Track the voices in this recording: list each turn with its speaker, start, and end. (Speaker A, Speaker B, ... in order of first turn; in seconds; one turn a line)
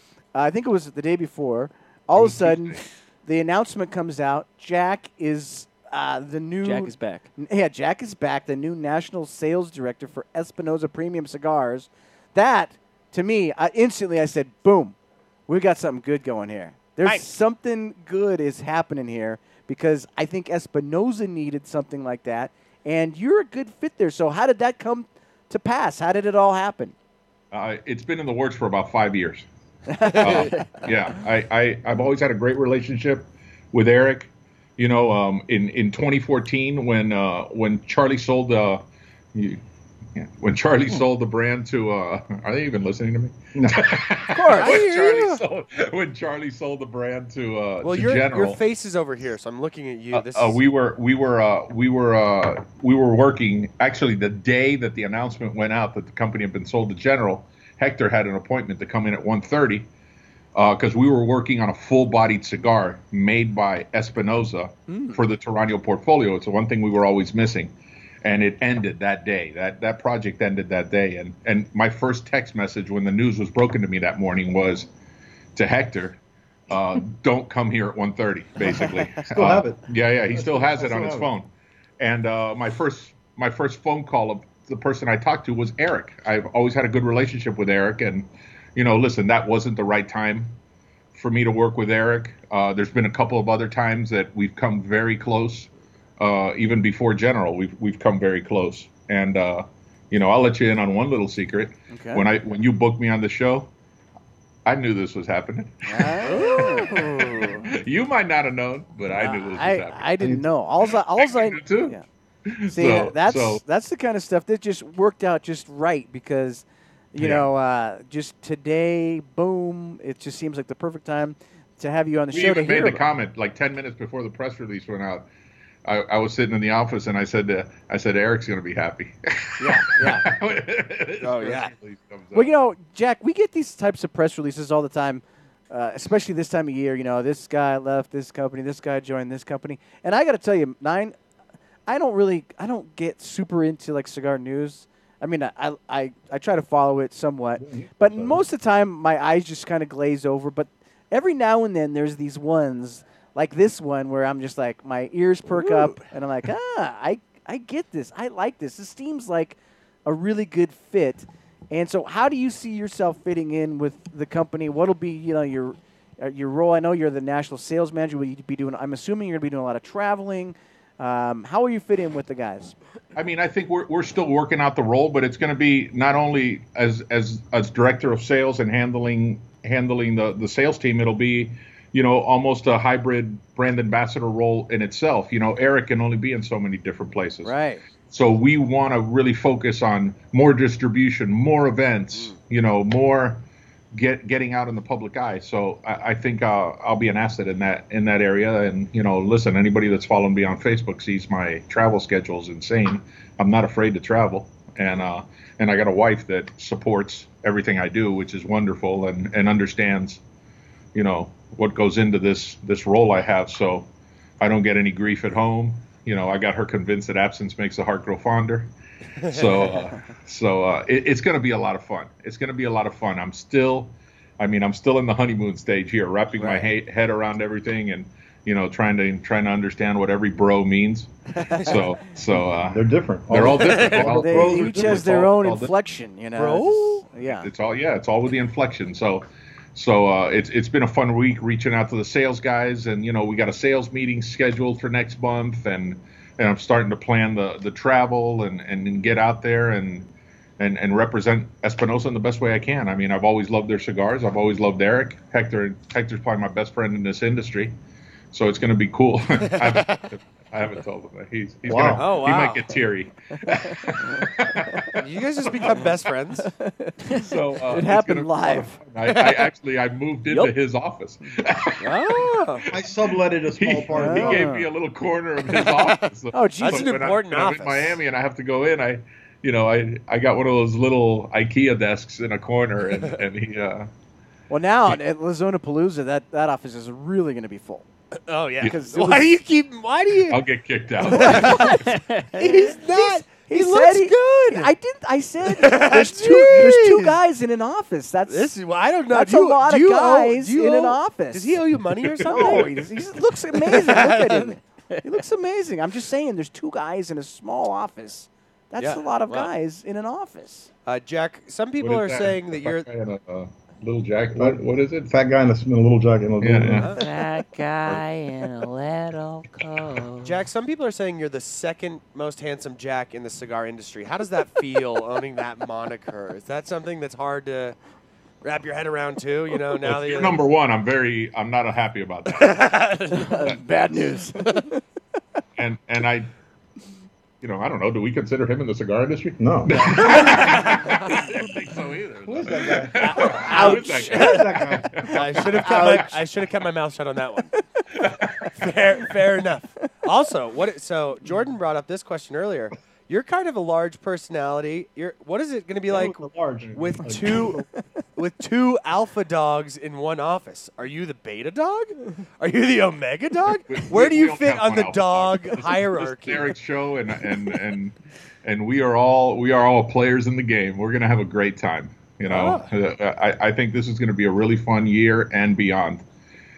Speaker A: 0.3-14.9
Speaker B: 2.2-2.8
Speaker C: 6.6-7.3
Speaker A: 15.5-26.9
Speaker B: 27.5-29.4
Speaker A: 29.9-30.6
Speaker B: 30.0-38.8
Speaker B: 39.3-39.6
Speaker B: 40.1-48.6
Speaker D: 43.5-43.9
Speaker A: 44.3-44.8
Speaker E: 44.5-45.4
Speaker E: 47.8-50.6
Speaker B: 50.1-59.9
Speaker B: 60.5-67.7
Speaker A: 64.9-65.2
Speaker B: 68.2-74.9
Speaker B: 75.5-81.5
Speaker D: 79.2-81.3
Speaker B: 82.0-90.5
Speaker B: 91.1-103.7
Speaker A: 101.9-102.3
Speaker B: 104.7-110.3
Speaker A: 105.8-107.6
Speaker A: 109.1-112.0
Speaker D: 110.2-110.4
Speaker B: 111.2-113.6
Speaker A: 112.6-123.0
Speaker B: 117.2-117.4
Speaker B: 122.3-125.3
Speaker B: 125.8-132.5
Speaker A: 129.6-130.2
Speaker E: 131.2-131.7
Speaker A: 132.3-141.1
Speaker A: 141.9-172.7
Speaker D: 147.6-148.4
Speaker E: 155.6-156.0
Speaker B: 173.1-187.5
Speaker A: 187.4-187.8
Speaker B: 188.1-193.4
Speaker B: 193.9-210.2
Speaker B: 210.9-213.9
Speaker B: 214.4-218.7
Speaker B: 219.2-235.7
Speaker E: 219.2-219.7
Speaker D: 232.7-235.4
Speaker E: 233.5-234.1
Speaker A: 234.1-237.5
Speaker E: 236.3-237.0
Speaker B: 237.3-250.1
Speaker B: 250.6-257.7
Speaker B: 258.3-265.9
Speaker E: 259.6-260.0
Speaker D: 261.6-262.1
Speaker E: 261.9-262.8
Speaker E: 264.9-266.5
Speaker A: 266.6-268.7
Speaker B: 267.1-272.8
Speaker E: 269.0-269.5
Speaker E: 271.8-272.6
Speaker D: 272.7-274.5
Speaker B: 273.6-283.9
Speaker A: 273.9-274.7
Speaker E: 275.5-276.0
Speaker A: 276.3-276.9
Speaker E: 276.6-278.0
Speaker A: 284.5-287.9
Speaker E: 288.3-290.4
Speaker A: 288.6-289.4
Speaker B: 290.3-291.7
Speaker A: 291.1-298.5
Speaker E: 291.1-291.7
Speaker E: 292.3-294.7
Speaker E: 295.5-297.2
Speaker E: 298.3-303.0
Speaker A: 299.1-301.6
Speaker B: 302.2-302.7
Speaker A: 302.2-310.7
Speaker E: 303.5-304.5
Speaker E: 308.8-309.5
Speaker E: 310.9-312.9
Speaker B: 311.8-315.1
Speaker D: 314.3-316.9
Speaker B: 316.4-316.9
Speaker E: 316.8-317.1
Speaker C: 316.9-320.4
Speaker E: 320.2-327.8
Speaker E: 328.4-330.4
Speaker B: 329.8-332.8
Speaker E: 332.3-333.4
Speaker A: 333.1-334.6
Speaker B: 335.6-336.3
Speaker B: 337.4-345.8
Speaker D: 339.4-340.3
Speaker E: 340.0-341.0
Speaker D: 342.2-345.1
Speaker A: 343.1-344.5
Speaker E: 345.1-347.5
Speaker A: 345.4-346.1
Speaker B: 347.9-348.5
Speaker E: 348.5-357.6
Speaker D: 355.9-357.6
Speaker E: 358.1-366.5
Speaker B: 363.7-376.0
Speaker E: 372.3-372.6